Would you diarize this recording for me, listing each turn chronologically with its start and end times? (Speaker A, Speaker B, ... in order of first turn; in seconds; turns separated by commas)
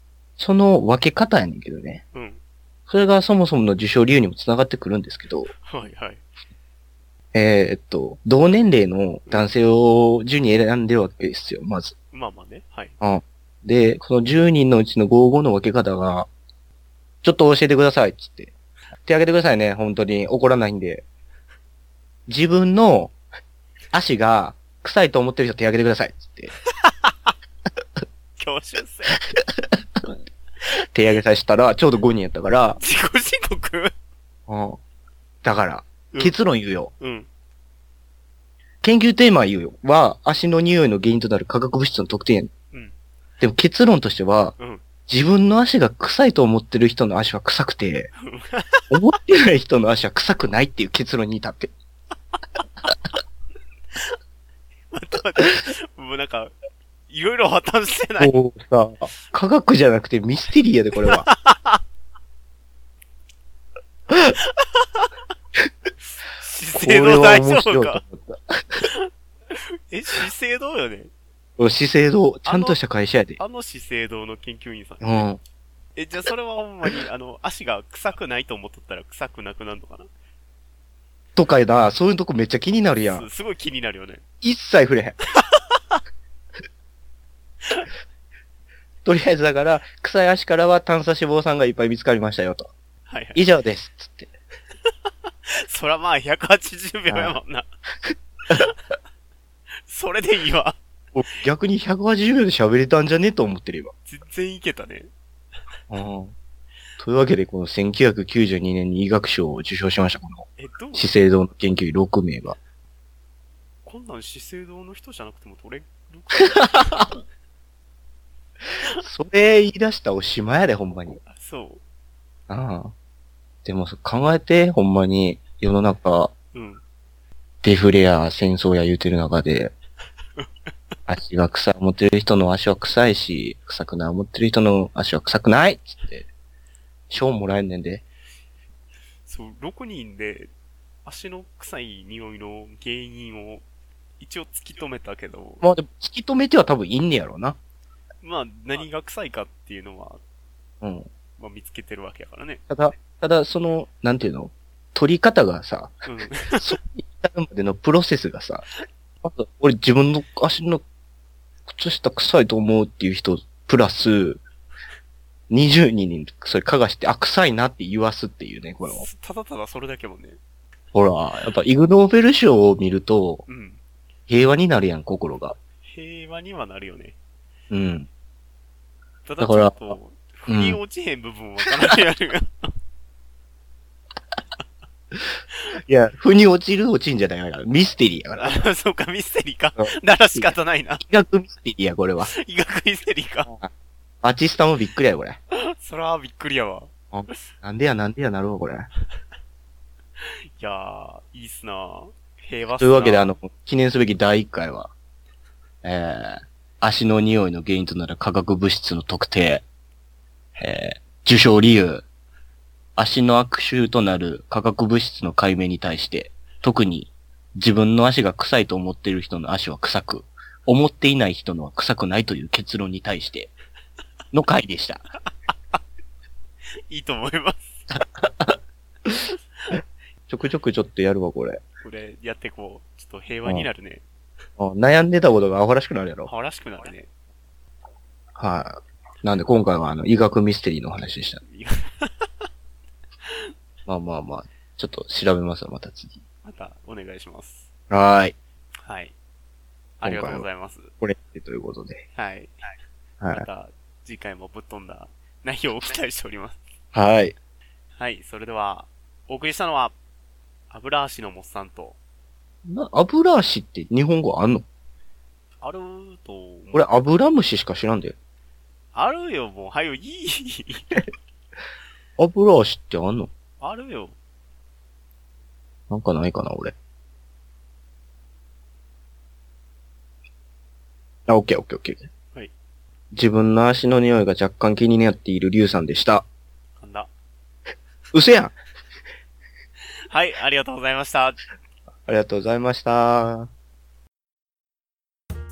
Speaker A: 0.4-2.0, Speaker B: 2.1-2.4, Speaker A: 2.9-5.5, Speaker B: 5.5-6.2, Speaker A: 7.3-11.9, Speaker B: 12.1-12.9, Speaker A: 13.0-16.3, Speaker A: 17.2-18.5, Speaker A: 19.1-21.1, Speaker A: 22.3-23.2, Speaker A: 23.9-26.5, Speaker B: 26.8-27.3, Speaker B: 28.4-29.2, Speaker A: 30.9-32.8, Speaker B: 32.8-33.9, Speaker A: 34.5-34.8, Speaker A: 35.4-36.9, Speaker B: 37.0-37.3, Speaker A: 38.8-42.5, Speaker A: 43.4-44.6, Speaker B: 44.6-44.8, Speaker A: 45.1-48.1, Speaker B: 48.2-48.9, Speaker A: 48.9-51.7, Speaker B: 54.9-56.5, Speaker B: 57.1-58.4, Speaker A: 58.2-61.3, Speaker B: 61.1-61.8, Speaker B: 64.5-65.1, Speaker B: 66.1-68.0, Speaker A: 66.8-68.8, Speaker B: 68.8-71.1, Speaker A: 71.6-73.4, Speaker B: 72.5-72.8, Speaker B: 73.4-75.1, Speaker A: 75.0-75.4, Speaker B: 76.0-80.1, Speaker A: 81.4-83.3, Speaker B: 83.0-84.2, Speaker A: 84.4-85.2, Speaker B: 85.4-86.0, Speaker A: 89.0-92.7, Speaker B: 93.1-93.4, Speaker A: 93.3-94.3, Speaker B: 95.5-97.7, Speaker A: 97.1-97.4, Speaker A: 98.1-98.7, Speaker B: 99.8-100.8, Speaker A: 101.2-103.9, Speaker B: 104.1-105.1, Speaker A: 105.9-106.3, Speaker A: 107.0-112.6, Speaker B: 110.6-111.1, Speaker B: 113.8-117.2, Speaker A: 119.0-121.2, Speaker B: 121.3-121.8, Speaker A: 122.5-122.9, Speaker A: 123.7-126.3, Speaker B: 126.5-126.8, Speaker A: 127.6-129.7, Speaker A: 131.1-136.3, Speaker A: 137.1-138.0, Speaker B: 139.3-140.5, Speaker B: 141.1-143.6, Speaker B: 144.2-145.6, Speaker A: 145.6-147.6, Speaker B: 148.2-150.2, Speaker A: 150.8-151.1, Speaker B: 151.4-152.6, Speaker A: 152.7-158.7, Speaker B: 156.1-156.7, Speaker A: 159.2-160.8, Speaker A: 161.7-164.4, Speaker A: 165.5-169.1, Speaker B: 168.8-170.4, Speaker A: 170.9-173.4, Speaker B: 173.5-173.8, Speaker A: 174.3-175.6, Speaker B: 175.9-177.2, Speaker A: 177.7-178.1, Speaker B: 179.3-182.7, Speaker A: 179.4-180.8, Speaker A: 185.9-188.7, Speaker B: 188.4-191.0, Speaker A: 189.8-192.3, Speaker B: 192.2-193.5, Speaker A: 194.2-195.4, Speaker B: 195.5-197.3, Speaker A: 197.1-198.9, Speaker B: 200.2-203.3, Speaker A: 202.8-204.9, Speaker A: 205.8-209.7, Speaker A: 210.6-212.1, Speaker A: 213.0-223.5, Speaker A: 224.3-225.0, Speaker B: 226.9-227.8, Speaker A: 228.2-228.6, Speaker A: 230.3-231.6, Speaker B: 231.8-234.0, Speaker A: 234.6-236.3, Speaker B: 236.3-237.1, Speaker A: 238.4-241.4, Speaker B: 241.5-242.5, Speaker B: 243.3-243.5, Speaker A: 243.9-246.2, Speaker B: 246.4-247.7, Speaker A: 247.9-248.3, Speaker B: 248.8-249.1, Speaker B: 250.0-250.9, Speaker A: 250.0-250.5, Speaker A: 251.0-252.1, Speaker B: 252.2-252.7, Speaker A: 253.2-253.5, Speaker B: 253.3-256.6, Speaker A: 256.9-257.4, Speaker B: 258.0-259.9, Speaker B: 260.7-262.0, Speaker A: 262.7-264.7, Speaker B: 265.6-266.9, Speaker A: 266.7-268.1, Speaker B: 268.9-271.1, Speaker A: 272.2-273.3, Speaker B: 273.6-274.1, Speaker A: 275.9-276.8, Speaker A: 281.3-282.1, Speaker A: 283.1-286.3, Speaker B: 286.8-287.1, Speaker A: 288.1-288.6, Speaker B: 290.1-291.4, Speaker A: 292.1-293.5